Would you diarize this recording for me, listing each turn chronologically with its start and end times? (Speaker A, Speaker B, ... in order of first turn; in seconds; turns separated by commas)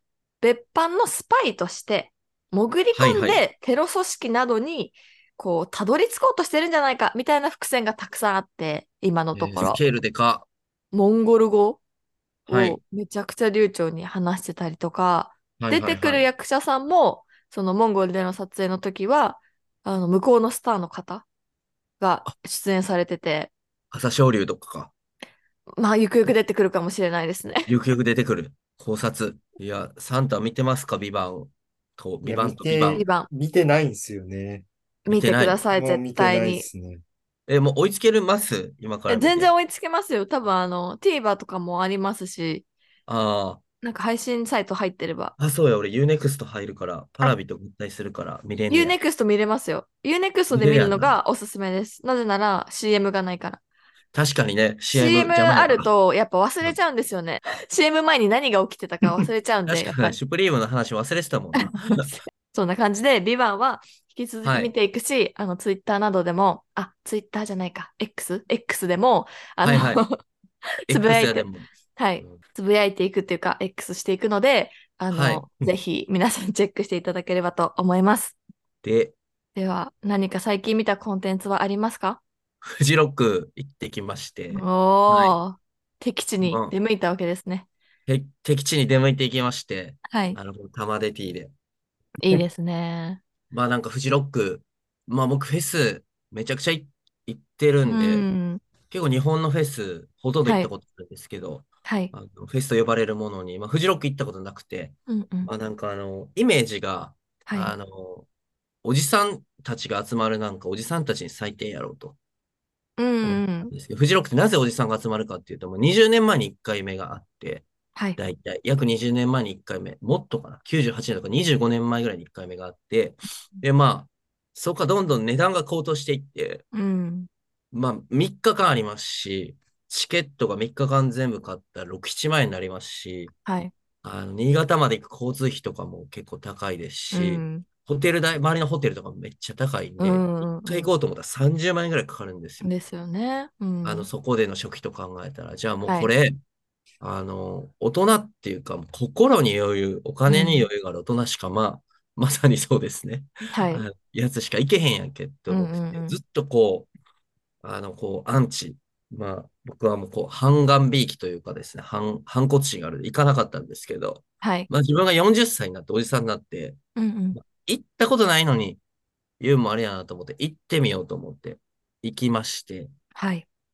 Speaker A: 0.4-9.8, Speaker B: 3.0-3.4, Speaker B: 9.3-10.5, Speaker A: 10.9-11.8, Speaker A: 12.5-21.2, Speaker B: 12.5-12.8, Speaker B: 15.6-16.3, Speaker A: 22.0-23.5, Speaker B: 23.9-24.9, Speaker A: 25.8-27.7, Speaker B: 27.7-33.1, Speaker C: 32.2-34.7, Speaker A: 32.9-33.3, Speaker A: 35.1-36.7, Speaker B: 35.1-35.6, Speaker C: 35.7-37.0, Speaker B: 37.5-39.5, Speaker A: 39.1-42.7, Speaker B: 43.1-43.6, Speaker A: 43.8-45.4, Speaker B: 45.4-49.0, Speaker A: 48.7-53.6, Speaker B: 50.5-51.2, Speaker B: 54.1-55.9, Speaker A: 54.9-60.1, Speaker B: 59.7-62.1, Speaker A: 61.6-70.2, Speaker B: 64.4-64.7, Speaker B: 69.6-70.0, Speaker B: 70.9-71.7, Speaker A: 70.9-78.4, Speaker B: 75.1-75.5, Speaker B: 78.8-79.2, Speaker A: 79.6-82.2, Speaker B: 82.6-85.4, Speaker A: 84.5-87.7, Speaker B: 86.4-86.8, Speaker B: 88.1-91.5, Speaker A: 90.1-90.4, Speaker A: 92.2-93.2, Speaker B: 93.5-98.3, Speaker A: 97.9-98.6, Speaker B: 98.9-108.3, Speaker A: 101.8-102.1, Speaker A: 105.1-105.5, Speaker A: 107.5-107.7, Speaker B: 108.8-112.2, Speaker A: 113.0-113.7, Speaker B: 113.2-126.6, Speaker A: 126.7-127.3, Speaker B: 127.7-133.3, Speaker A: 133.5-133.7, Speaker B: 134.0-142.7, Speaker A: 137.1-137.7, Speaker A: 140.0-140.9, Speaker A: 142.6-144.1, Speaker B: 143.8-146.4, Speaker A: 145.9-146.1, Speaker B: 147.0-156.9, Speaker A: 150.3-150.7, Speaker A: 153.5-153.8, Speaker A: 155.5-156.2, Speaker B: 157.6-166.8, Speaker A: 164.4-164.7, Speaker A: 167.0-167.4, Speaker B: 167.3-168.8, Speaker B: 169.4-172.9, Speaker A: 173.2-173.4